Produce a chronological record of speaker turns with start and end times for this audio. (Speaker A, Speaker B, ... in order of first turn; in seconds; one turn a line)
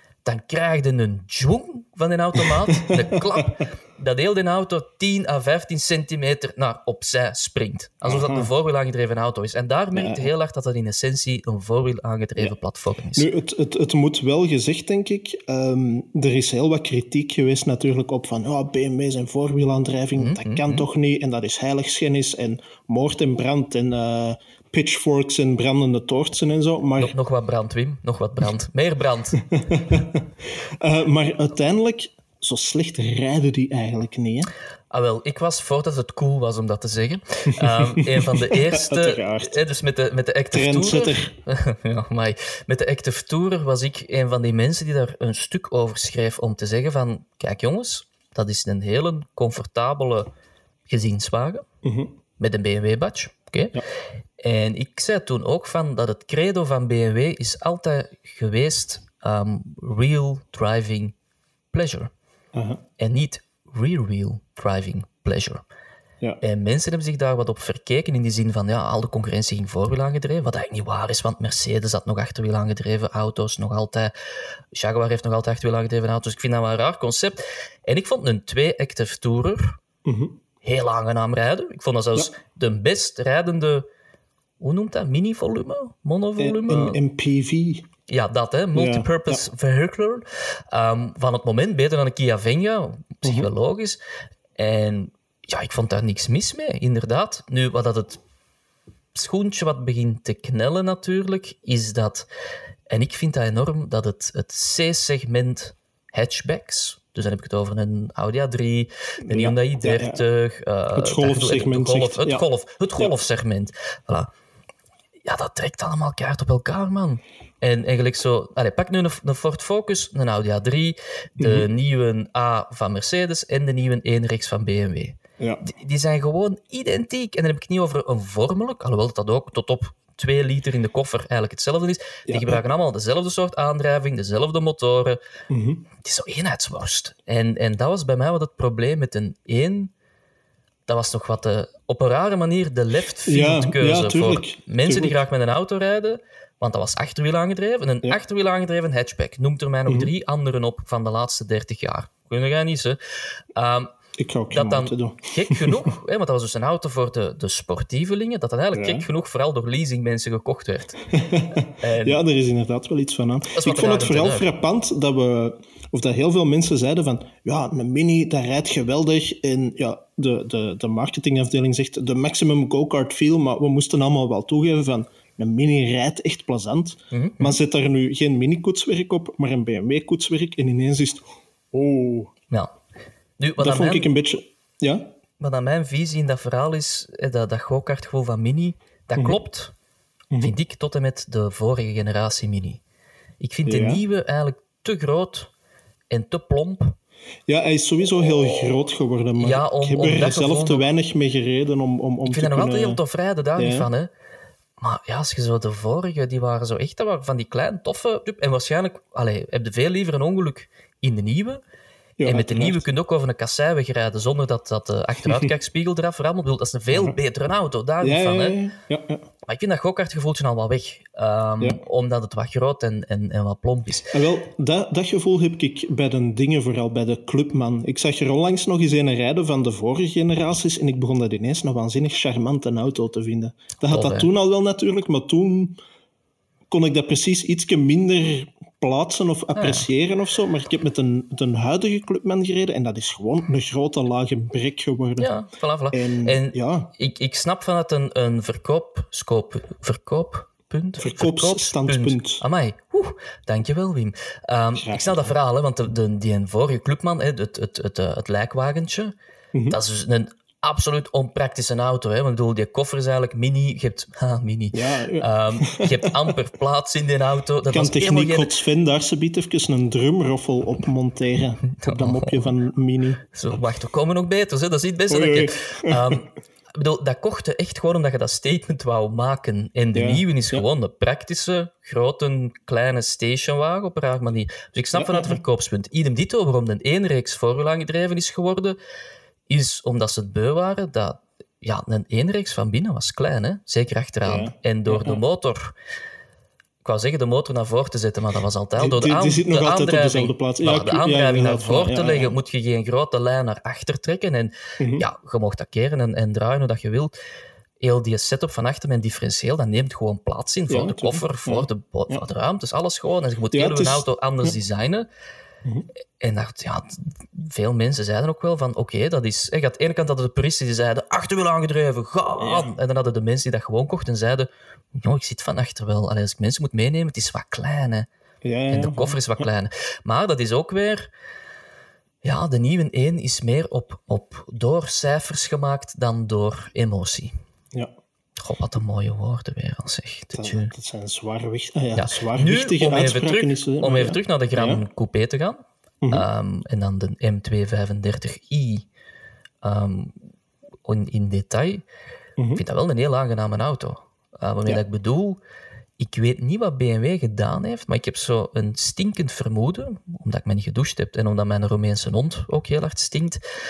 Speaker A: 0.2-13.3
Speaker B: 2.7-3.5
Speaker B: 8.0-8.5
Speaker B: 9.9-10.3
Speaker B: 13.2-27.1
Speaker A: 20.1-20.9
Speaker A: 27.0-29.4
Speaker B: 29.5-30.3
Speaker B: 30.8-34.5
Speaker A: 34.9-50.3
Speaker B: 37.5-39.6
Speaker B: 40.5-41.3
Speaker A: 50.9-51.7
Speaker B: 51.8-52.1
Speaker A: 52.4-53.8
Speaker A: 54.4-61.1
Speaker A: 61.7-62.1
Speaker B: 62.5-62.8
Speaker A: 63.0-65.6
Speaker A: 66.4-74.1
Speaker A: 74.7-79.8
Speaker B: 80.0-80.4
Speaker A: 80.6-83.9
Speaker A: 84.6-87.0
Speaker B: 86.4-87.8
Speaker A: 88.1-94.0
Speaker B: 88.7-89.5
Speaker B: 93.2-93.5
Speaker A: 94.6-98.2
Speaker A: 99.1-102.3
Speaker A: 102.9-114.3
Speaker B: 109.2-110.2
Speaker B: 110.9-112.4
Speaker A: 115.2-135.2
Speaker B: 121.4-121.7
Speaker B: 125.4-125.7
Speaker B: 132.3-132.6
Speaker B: 135.5-135.9
Speaker A: 136.0-139.9
Speaker A: 140.9-153.0
Speaker B: 143.3-145.2
Speaker A: 153.6-153.9
Speaker B: 154.2-156.0
Speaker A: 154.5-161.0
Speaker B: 158.7-159.1
Speaker B: 161.1-182.3
Speaker A: 161.8-162.2
Speaker A: 163.6-164.5
Speaker A: 177.1-177.6
Speaker A: 183.4-184.1
Speaker B: 183.6-185.1
Speaker A: 185.4-189.7
Speaker A: 190.4-192.8
Speaker A: 193.4-195.5
Speaker B: 193.7-194.0
Speaker A: 196.1-197.0
Speaker B: 197.5-203.0
Speaker A: 199.4-200.9
Speaker A: 202.2-204.1
Speaker B: 203.6-203.9
Speaker A: 204.8-211.6
Speaker B: 212.2-212.9
Speaker A: 212.2-218.6
Speaker B: 216.9-217.2
Speaker B: 218.0-219.3
Speaker A: 219.4-224.1
Speaker B: 224.1-235.8
Speaker A: 233.8-234.3
Speaker B: 236.7-245.3
Speaker A: 239.6-239.9
Speaker A: 245.2-259.1
Speaker B: 245.9-246.9
Speaker B: 251.0-252.4
Speaker B: 254.8-255.3
Speaker A: 259.7-268.5
Speaker B: 264.7-266.3
Speaker B: 267.7-273.3
Speaker A: 271.8-272.5
Speaker A: 273.3-288.8
Speaker B: 275.1-276.2
Speaker B: 279.9-280.6
Speaker B: 284.9-285.4
Speaker A: 289.5-295.8
Speaker B: 294.2-295.2
Speaker A: 296.8-307.1
Speaker B: 298.8-302.4
Speaker B: 304.8-305.1
Speaker A: 307.8-315.1
Speaker B: 310.7-312.2
Speaker B: 313.5-314.1
Speaker A: 316.2-328.1
Speaker B: 322.4-322.8
Speaker B: 328.4-329.5
Speaker A: 328.7-331.1
Speaker A: 332.2-337.3
Speaker A: 338.4-340.7
Speaker B: 340.4-344.9
Speaker A: 342.0-348.9
Speaker A: 349.6-350.1
Speaker A: 350.9-351.8
Speaker B: 352.4-352.6
Speaker A: 352.6-355.4
Speaker A: 356.0-363.4